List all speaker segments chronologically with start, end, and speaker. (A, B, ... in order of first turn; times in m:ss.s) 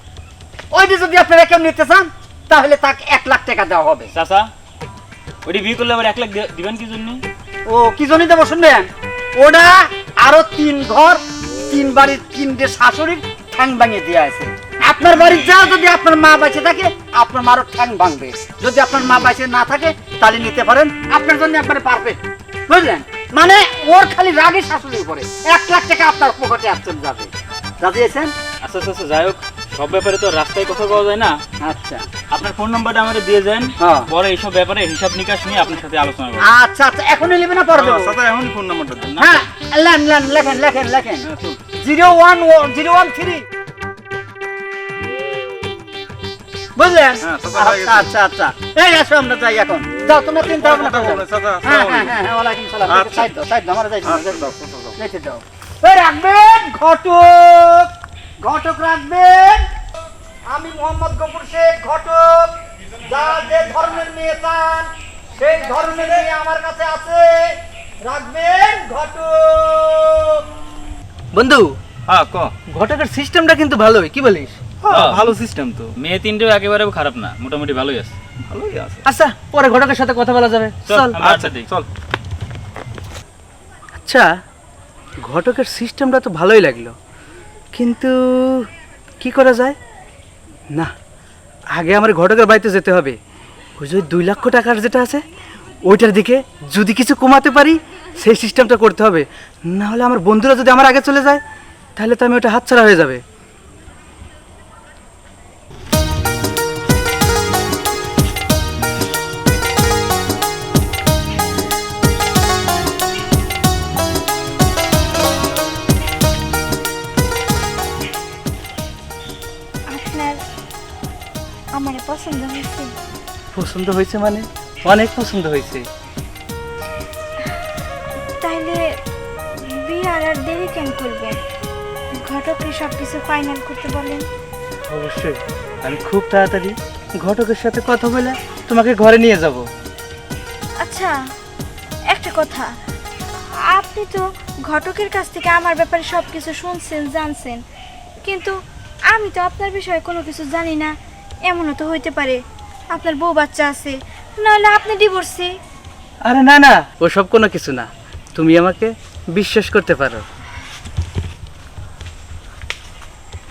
0:00.7-0:04.1 A
0:04.1-0:04.5 B
0:05.4-0:07.2 B
0:07.7-0:28.3 A
0:28.6-0:31.4 B
0:31.6-0:32.0 A
0:32.3-0:36.5 B
0:33.8-0:34.1 A
0:36.4-0:38.2 A
0:37.7-0:39.2 C
0:39.2-0:43.4 A
0:46.8-0:59.7 A
0:47.2-0:48.1 C
0:50.4-0:52.2 C
0:52.9-0:53.3 C
0:54.1-0:54.9 C
1:00.5-1:02.5 A
1:03.1-1:10.4 A
1:11.3-1:11.7 D
1:12.2-1:12.5 C
1:12.7-1:14.6 D
1:14.8-1:15.9 C
1:14.9-1:15.2 B
1:16.0-1:18.2 B
1:18.5-1:19.0 C
1:19.0-1:21.2 D
1:20.8-1:21.7 B
1:21.2-1:21.9 C
1:24.0-1:24.3 D
1:25.2-1:26.9 D
1:27.7-1:28.7 D
1:29.2-1:29.8 D
1:31.7-1:33.2 D
1:33.8-1:35.2 D
1:35.8-1:41.4 D
1:42.0-1:43.2 D
1:59.9-2:00.4 E
2:01.7-2:02.9 E
2:03.5-2:05.8 D
2:08.4-2:09.0 E
2:09.6-2:11.4 E
2:12.1-2:14.2 E
2:14.9-2:19.6 D
2:20.8-2:21.2 E
2:22.1-2:22.7 E
2:23.6-2:27.6 E
2:28.2-2:35.6 E
2:36.2-2:40.2 D